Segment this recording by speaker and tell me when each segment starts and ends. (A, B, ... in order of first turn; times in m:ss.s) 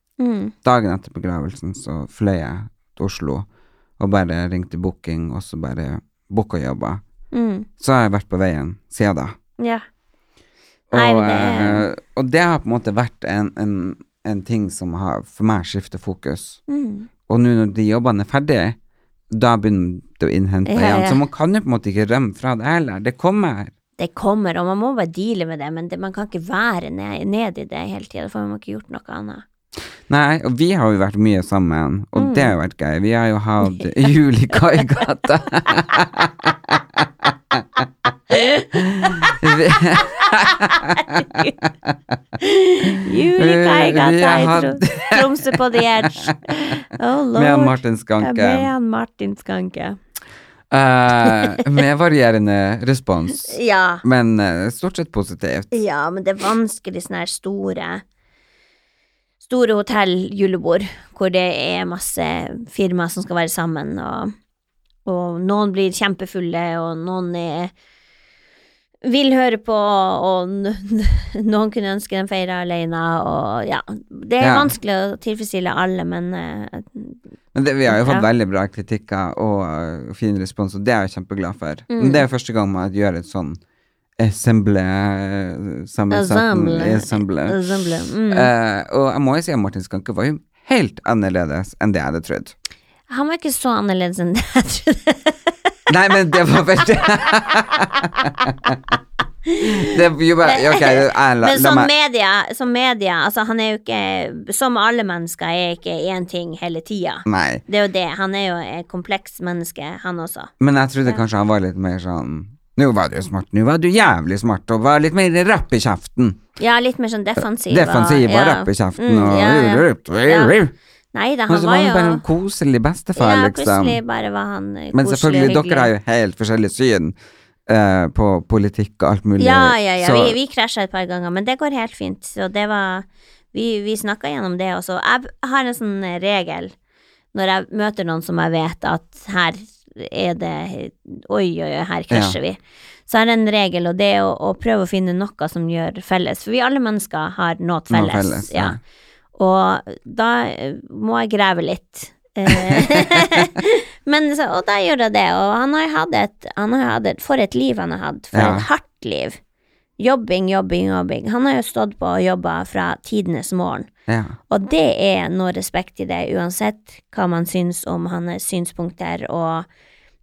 0:00.2-0:00.5 A
0:00.6-0:03.5 B
0:04.0-0:07.0 B
0:07.3-0:07.7 A
0:07.8-0:09.4 B
0:09.6-0:09.8 A
0:10.9-0:16.6 B
0:10.9-0:11.9 A
0:16.7-0:17.1 A
0:17.3-0:18.8 B
0:19.3-0:23.7 B
0:20.7-0:21.2 A
0:24.0-0:29.4 A
0:30.1-0:37.3 B
0:32.2-0:32.5 A
0:38.3-0:39.4 A
0:38.8-0:41.5 B
0:42.4-0:50.0 A
0:43.4-0:45.6 B
0:47.4-0:48.7 B
0:50.7-0:55.7 B
0:53.5-0:54.0 A
0:55.7-0:58.0 A
0:59.4-1:04.3 A
1:05.1-1:07.7 A
1:09.0-1:17.2 A
1:14.4-1:14.7 B
1:17.6-1:23.6 B
1:17.9-1:18.3 A
1:21.9-1:22.2 A
1:24.2-1:27.7 B
1:26.1-1:28.5 A
1:28.3-1:32.5 B
1:33.1-1:35.5 A
1:35.9-1:38.7 B
1:39.5-1:39.9 A
1:39.6-1:41.9 B
1:40.5-1:50.5 A
1:47.3-1:47.6 B
1:50.6-1:56.4 B
1:56.6-2:00.6 A
1:57.4-2:00.7 B
2:01.1-2:02.2 A
2:01.5-2:04.0 B
2:03.2-2:05.9 A
2:04.9-2:10.4 B
2:09.4-2:16.7 A
2:17.3-2:28.8 A
2:22.1-2:22.4 B
2:27.9-2:28.8 B
2:29.4-2:39.4 A
2:32.7-2:33.0 B
2:38.3-2:38.7 B
2:40.0-2:43.9 A
2:44.1-2:44.4 B
2:44.5-2:49.7 A